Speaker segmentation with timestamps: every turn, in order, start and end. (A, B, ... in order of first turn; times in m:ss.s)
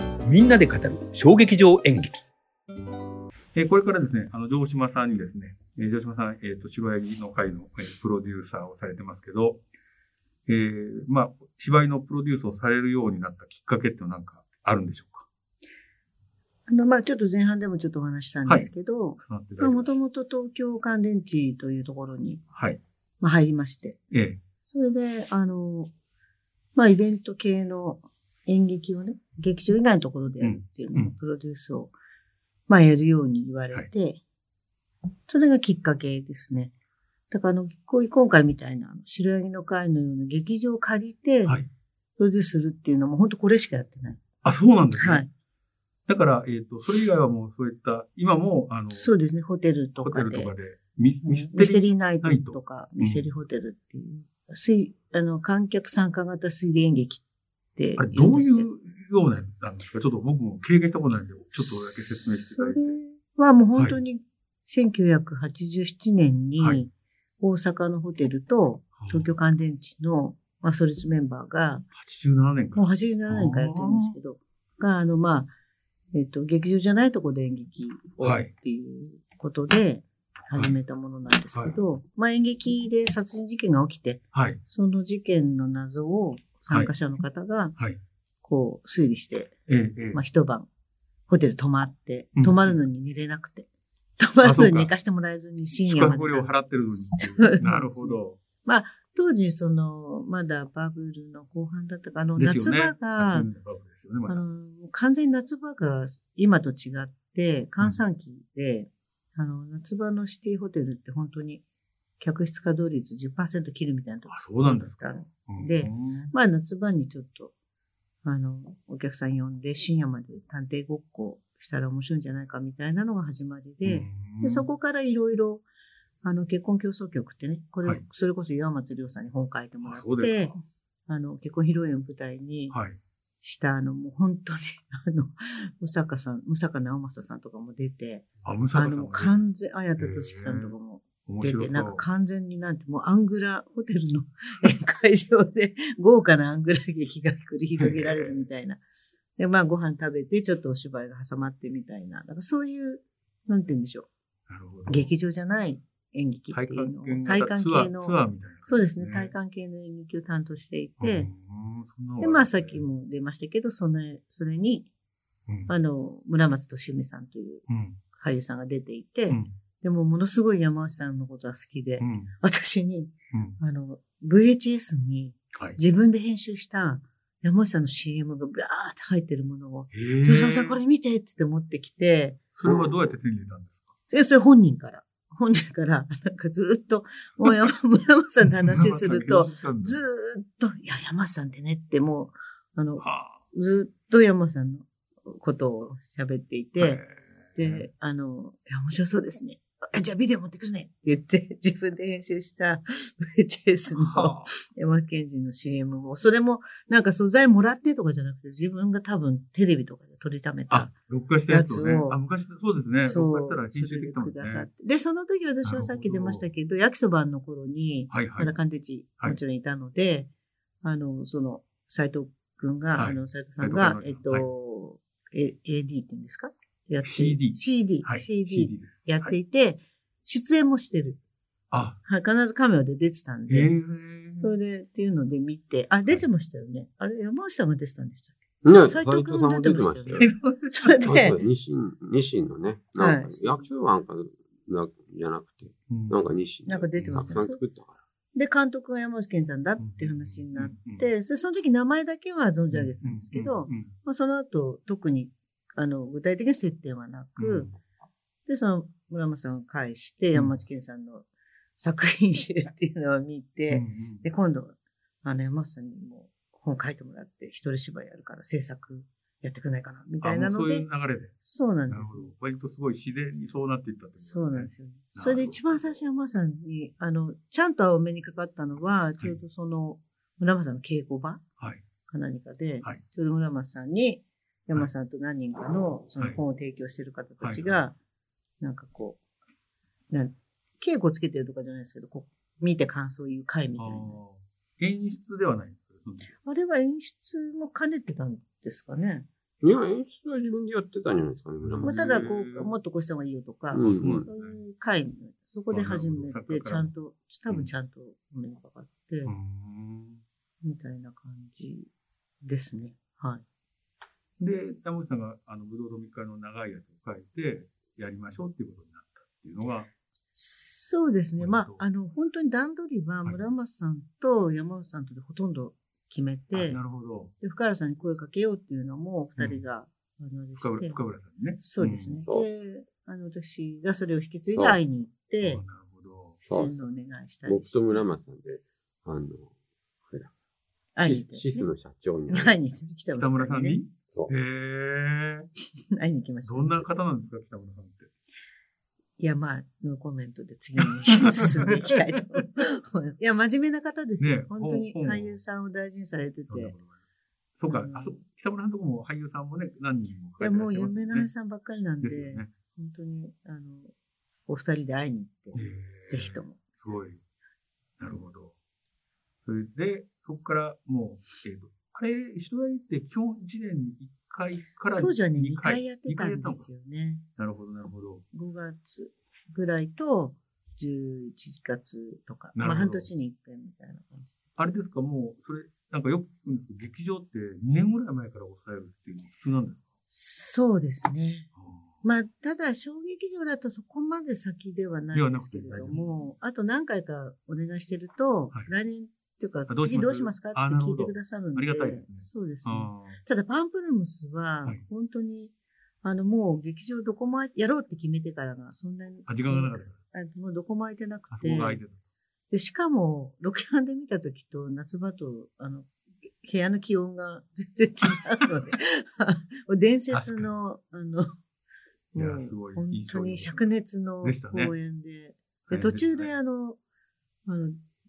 0:00.2-0:02.2 A
0:03.5-0:09.6 B
0:10.5-0:15.3 B
0:16.7-0:22.4 C
0:18.5-0:19.9 B
0:22.5-0:22.8 B
0:23.2-0:24.0 C
0:24.1-0:24.4 B
0:24.6-0:25.9 C
0:26.7-0:31.9 C
0:30.4-0:31.1 B
0:32.7-0:34.2 C
0:35.3-0:36.7 C
0:37.3-0:41.6 C
0:42.2-0:44.2 C
0:44.4-0:45.2 B
0:45.0-0:45.3 C
0:46.1-0:49.1 B
0:48.9-0:50.5 C
0:50.0-0:53.3 B
0:51.2-0:57.2 C
0:57.8-0:58.7 C
0:58.0-1:03.0 B
1:02.6-1:11.8 C
1:09.0-1:09.3 B
1:11.9-1:14.2 B
1:12.7-1:15.5 C
1:16.1-1:27.7 C
1:18.2-1:18.5 B
1:24.3-1:24.6 B
1:28.4-1:29.5 C
1:29.7-1:30.2 B
1:30.1-1:30.7 C
1:31.3-1:36.5 C
1:32.4-1:32.8 B
1:34.4-1:34.9 B
1:35.8-1:38.4 B
1:37.2-1:43.5 C
1:42.4-1:44.4 B
1:44.3-1:51.6 C
1:52.2-1:57.5 C
1:54.3-1:56.3 B
1:58.2-2:05.6 C
2:03.8-2:04.7 B
2:06.2-2:12.7 C
2:09.8-2:10.5 B
2:12.7-2:13.0 B
2:13.4-2:28.8 C
2:18.4-2:19.4 B
2:20.0-2:22.0 B
2:27.8-2:28.4 B
2:29.4-2:34.1 C
2:34.5-2:35.1 B
2:34.9-2:41.3 C
2:36.5-2:39.3 B
2:41.0-2:42.8 B
2:42.2-2:44.9 C
2:45.7-2:47.6 C
2:47.7-2:48.0 B
2:48.2-3:02.4 C
2:52.0-2:52.3 B
2:53.3-2:53.6 B
2:59.9-3:00.8 B
3:02.6-3:03.9 B
3:04.1-3:17.0 C
3:08.6-3:10.0 B
3:13.0-3:13.4 B
3:16.8-3:17.9 B
3:17.6-3:30.9 C
3:23.9-3:24.5 B
3:30.7-3:34.7 B
3:31.5-3:32.2 C
3:33.1-3:40.3 C
3:35.6-3:36.5 B
3:38.1-3:38.5 B
3:40.8-3:51.2 C
3:43.0-3:44.4 B
3:47.0-3:49.3 B
3:51.7-3:52.0 B
3:52.0-3:53.7 C
3:53.5-3:54.5 B
3:54.4-4:01.4 C
3:58.6-4:00.3 D
4:00.2-4:01.1 B
4:01.0-4:08.0 D
4:03.0-4:03.6 C
4:05.9-4:06.2 B
4:06.6-4:07.6 C
4:07.0-4:07.5 B
4:08.3-4:17.7 C
4:09.8-4:11.0 B
4:12.7-4:13.9 B
4:17.4-4:17.8 B
4:18.4-4:21.2 C
4:20.3-4:20.6 B
4:21.8-4:30.8 C
4:23.7-4:24.2 B
4:30.2-4:31.3 B
4:31.4-4:32.3 C
4:31.9-4:35.8 B
4:34.2-4:41.4 C
4:42.1-4:47.9 C
4:47.4-4:47.8 B
4:48.6-4:49.2 C
4:50.1-4:54.2 C
4:53.8-4:56.3 B
4:56.4-4:59.3 C
4:59.6-5:02.3 D
5:01.6-5:02.7 B
5:01.8-5:09.3 C
5:03.7-5:04.3 D
5:03.8-5:04.6 B
5:05.7-5:06.9 B
5:09.2-5:10.2 B
5:10.6-5:11.9 C
5:12.4-5:13.4 C
5:14.4-5:19.9 B
5:20.3-5:26.8 C
5:21.4-5:21.8 B
5:26.5-5:27.3 B
5:27.4-5:31.0 C
5:30.6-5:32.2 B
5:31.6-5:35.6 C
5:35.4-5:36.4 B
5:36.4-5:38.0 C
5:36.5-5:36.8 D
5:37.4-5:39.5 D
5:40.0-5:40.3 D
5:40.9-5:41.7 C
5:41.0-5:42.6 D
5:42.3-5:43.8 C
5:43.1-5:45.5 B
5:45.9-5:46.9 C
5:46.4-5:48.1 B
5:49.2-5:56.7 C
5:50.8-5:51.8 B
5:54.2-5:55.4 B
5:56.5-5:57.0 B
5:57.6-6:01.3 B
5:57.7-5:58.2 C
6:00.4-6:03.9 C
6:02.0-6:02.5 B
6:04.5-6:06.6 C
6:05.5-6:07.2 B
6:08.0-6:08.5 B
6:09.4-6:16.7 B
6:15.0-6:17.2 C
6:17.4-6:18.2 B
6:18.3-6:24.3 C
6:22.6-6:23.1 B
6:24.6-6:29.9 B
6:30.1-6:31.5 C
6:31.6-6:32.0 B
6:32.0-6:51.8 C
6:35.1-6:36.3 B
6:39.7-6:43.2 B
6:49.3-6:50.0 B
6:51.3-6:52.0 B
6:52.5-6:55.9 C
6:56.4-7:01.3 C
7:00.1-7:00.5 B
7:02.1-7:06.8 C
7:02.2-7:03.7 B
7:04.2-7:04.7 B
7:05.7-7:06.3 B
7:07.4-7:07.8 C